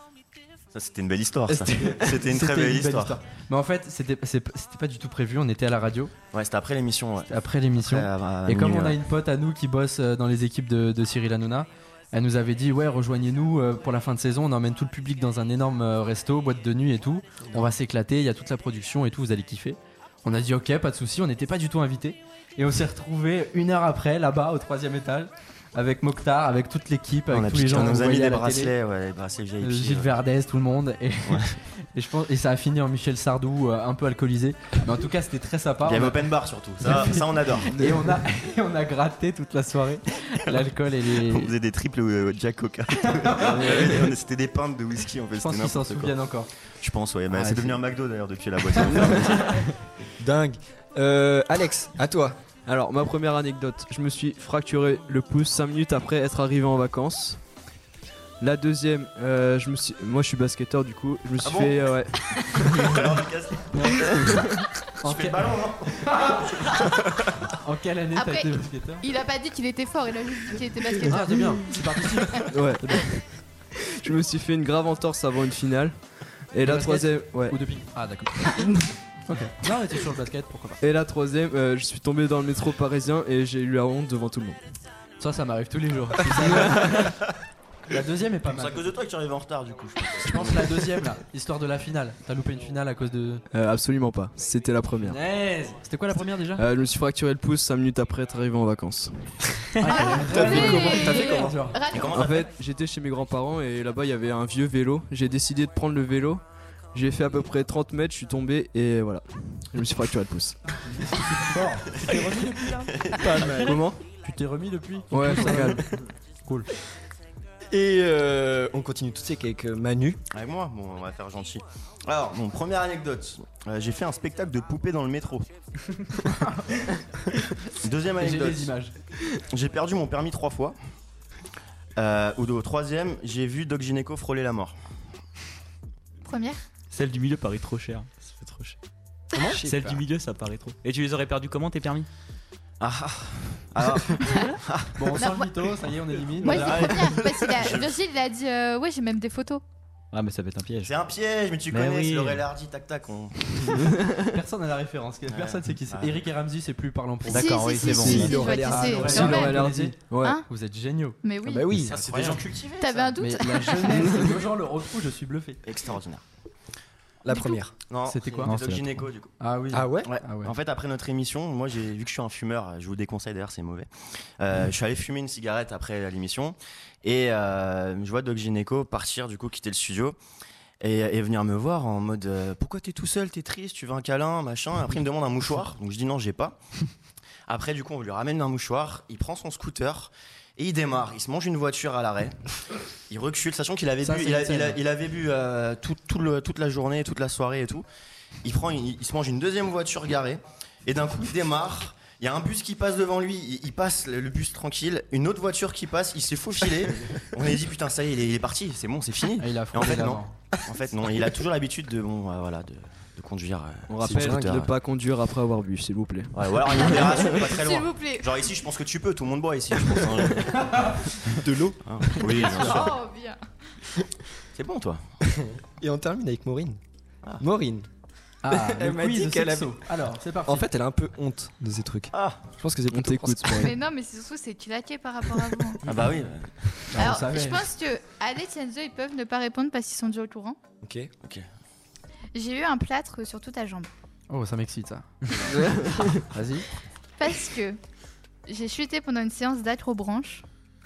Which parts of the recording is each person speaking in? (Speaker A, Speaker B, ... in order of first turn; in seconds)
Speaker A: 0.7-3.2, 6.3-9.0, 27.3-30.2, 31.2-31.6, 35.8-37.8, 41.1-46.1, 46.8-49.6, 61.4-61.9, 62.5-67.2, 88.5-90.9, 101.9-102.5, 112.9-114.0, 120.3-125.5, 127.7-128.7, 129.5-130.8, 131.9-134.7, 142.8-144.9, 146.4-148.0, 150.8-153.9, 155.3-156.2, 161.9-163.2, 165.6-166.2, 167.9-169.3, 170.0-180.2, 180.8-186.6, 187.5-192.4, 193.1-197.8, 198.4-214.7, 216.3-221.1, 221.8-223.0, 224.5-225.0, 232.1-232.4, 235.8-236.5
Speaker B: 1.5-6.1, 7.3-28.7, 29.6-36.3, 36.8-41.5, 43.1-43.9, 45.4-46.5, 47.3-47.8, 48.8-49.6, 63.7-64.3, 65.0-66.8, 67.5-69.0, 71.0-72.5, 76.6-80.8, 85.2-87.2, 87.9-88.9, 90.2-93.4, 95.0-96.6, 99.8-101.8, 111.0-115.9, 128.2-128.9, 144.9-147.0, 154.3-157.6, 158.5-161.2, 161.8-162.4, 163.2-165.6, 168.0-168.5, 169.4-170.5, 194.0-194.8, 209.4-210.3, 220.5-221.1, 228.4-230.7, 236.9-237.7, 244.3-245.6, 246.2-246.7
Speaker C: 50.2-52.4, 99.9-101.5, 117.7-120.2, 139.3-140.0, 157.8-159.3, 161.4-162.0, 167.2-167.7, 169.7-170.1, 214.0-214.7, 221.3-222.8, 225.3-226.8, 227.4-227.9, 228.5-229.8, 230.4-233.7, 240.8-241.1
Speaker D: 52.6-57.4, 58.4-62.2, 72.5-77.8, 78.6-78.9, 80.8-84.6, 93.5-95.2, 96.5-99.7, 102.1-110.6, 115.1-116.0, 159.0-160.4, 213.9-216.5, 232.9-233.7
Speaker E: 68.2-71.5, 99.8-102.2, 136.2-136.6, 144.2-144.5, 145.2-145.5, 146.4-149.6, 157.3-159.6, 161.2-161.7, 162.8-164.2, 167.3-167.6, 216.7-218.4, 222.4-223.4, 233.6-235.8, 236.9-240.6, 242.3-243.9, 247.2-247.8, 248.5-250.4
Speaker F: 136.9-138.8, 139.5-142.1, 150.1-150.9, 151.7-152.4, 157.3-158.5, 168.4-169.0